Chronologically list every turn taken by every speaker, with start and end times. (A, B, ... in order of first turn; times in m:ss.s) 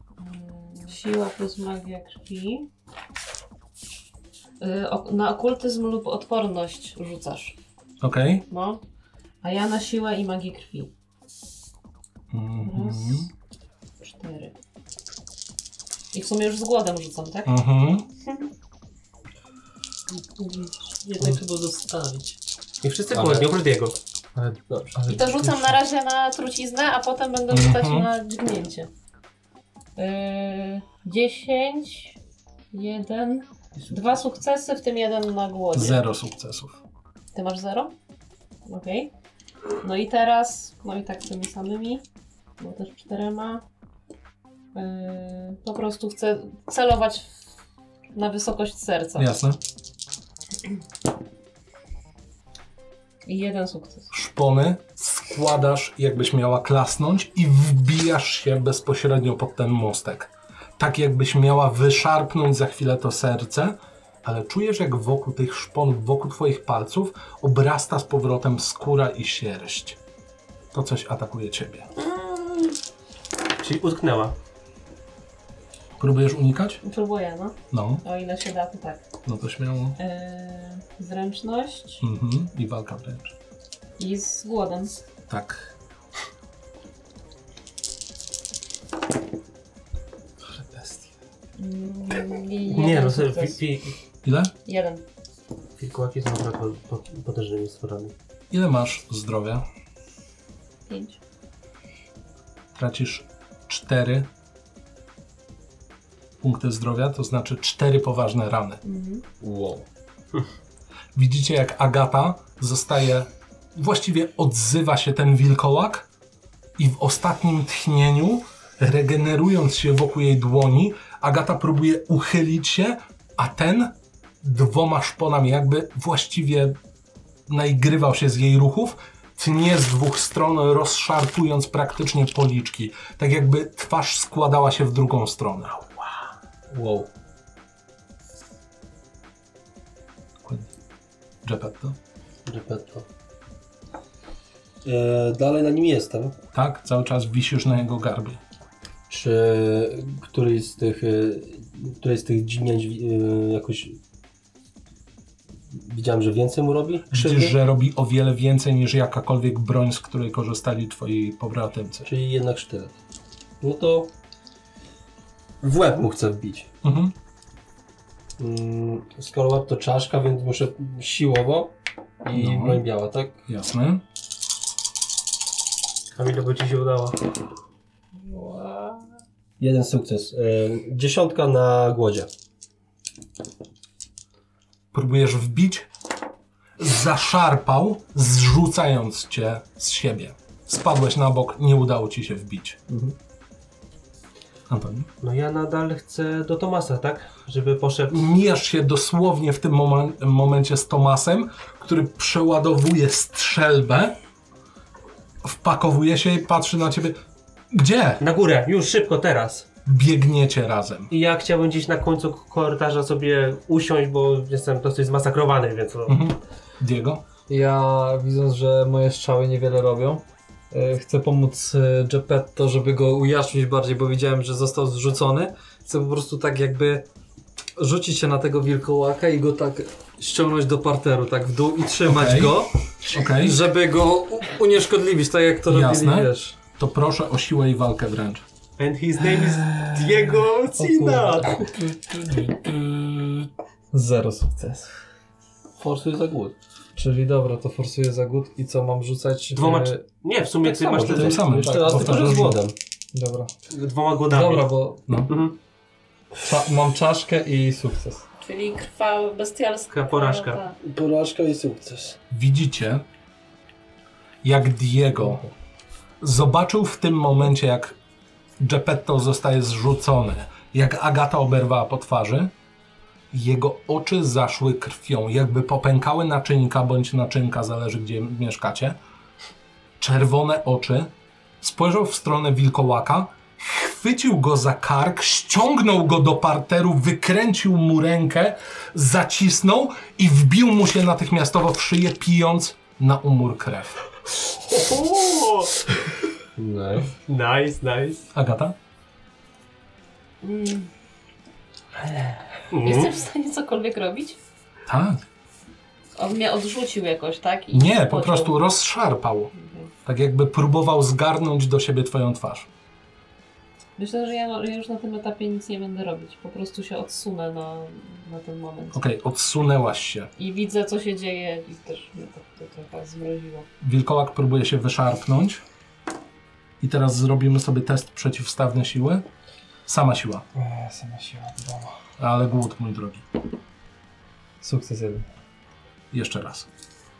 0:00.2-0:02.7 A
0:04.6-0:07.6 A
0:08.0-0:08.4 B
0:08.5-0:08.8 A
0:09.4-0:10.9 A
0:12.3-0:13.3 B
0:12.6-0:13.3 A
0:14.0-0:14.5 A
0:16.1-0:17.5 A
0:17.4-0:18.1 B
0:21.0-0:22.4 C
0:22.8-0:24.0 D
0:23.1-0:23.5 C
0:24.4-0:25.8 E
0:24.7-0:25.0 C
0:25.0-0:28.9 A
0:27.5-0:28.1 B
0:30.0-0:32.2 A
0:32.7-0:36.0 A
0:33.8-0:34.2 C
0:35.7-0:36.8 B
0:37.3-0:37.9 A
0:38.6-0:39.1 A
0:39.8-0:42.0 A
0:42.6-0:43.6 A
0:44.7-0:47.4 A
0:48.1-0:49.3 A
0:49.2-0:49.6 B
0:53.2-0:54.1 A
0:54.1-1:10.0 B
1:10.7-1:11.9 B
1:13.6-1:14.3 D
1:16.0-1:16.8 B
1:16.8-1:19.0 A
1:17.7-1:18.0 B
1:19.2-1:20.0 B
1:20.0-1:22.0 A
1:22.0-1:23.3 B
1:24.0-1:24.9 A
1:25.3-1:25.7 B
1:30.4-1:31.1 E
1:31.6-1:33.6 A
1:32.7-1:33.9 D
1:34.2-1:34.5 B
1:34.6-1:35.0 A
1:35.8-1:38.1 D
1:38.5-1:39.6 B
1:40.9-1:41.2 A
1:42.7-1:44.3 B
1:46.4-1:48.8 B
1:48.8-1:49.2 A
1:49.4-1:49.8 C
1:51.1-1:56.1 B
1:56.8-2:06.8 B
2:07.5-2:16.0 B
2:16.7-2:17.1 C
2:20.4-2:20.7 B
2:21.4-2:22.0 B
2:22.4-2:23.1 C
2:24.8-2:26.4 C
2:26.5-2:28.4 B
2:29.1-2:34.0 C
2:35.7-2:37.5 C
2:37.1-2:42.1 B
2:42.0-2:43.0 C
2:43.6-2:44.1 C
2:45.6-2:46.7 C
2:46.8-2:47.1 B
2:48.4-2:53.4 C
2:52.3-2:52.8 B
2:53.5-2:54.0 B
2:56.1-2:57.2 D
2:58.3-2:58.9 E
2:59.6-3:02.3 C
3:04.9-3:05.9 B
3:06.8-3:12.8 B
3:12.9-3:13.2 C
3:14.7-3:15.1 B
3:15.2-3:18.2 D
3:18.1-3:24.2 B
3:25.4-3:27.2 B
3:27.7-3:28.2 B
3:28.2-3:29.7 D
3:29.8-3:31.1 B
3:31.1-3:36.2 D
3:36.1-3:37.2 B
3:37.5-3:47.1 E
3:47.8-3:56.6 E
3:52.1-3:53.6 B
3:55.7-3:58.4 B
3:58.8-4:01.7 D
3:59.4-4:04.9 E
4:05.8-4:06.5 C
4:07.0-4:10.0 E
4:09.5-4:11.5 D
4:10.6-4:12.7 C
4:11.0-4:12.6 B
4:11.6-4:12.5 E
4:13.1-4:13.5 E
4:13.7-4:14.7 D
4:14.3-4:15.0 E
4:15.3-4:15.6 D
4:16.4-4:18.2 E
4:18.4-4:20.8 A
4:19.9-4:20.6 D
4:20.8-4:22.2 C
4:22.3-4:23.0 B
4:24.4-4:25.4 B
4:26.2-4:28.0 B
4:28.6-4:32.5 B
4:33.3-4:39.0 B
4:40.0-4:54.0 B
4:54.7-4:55.8 D
4:56.6-4:57.1 C
4:57.2-4:58.2 D
4:58.3-4:58.8 B
5:00.4-5:00.9 A
5:02.7-5:03.1 D
5:02.8-5:04.4 A
5:04.8-5:05.2 B
5:06.1-5:08.6 A
5:07.7-5:09.5 B
5:09.5-5:09.9 A
5:10.0-5:12.7 B
5:14.0-5:19.0 A
5:18.9-5:20.3 B
5:20.4-5:23.7 A
5:23.8-5:25.6 B
5:26.8-5:29.3 B
5:29.8-5:30.4 B
5:30.5-5:32.0 E
5:32.2-5:33.2 B
5:34.6-5:35.2 E
5:36.1-5:36.7 B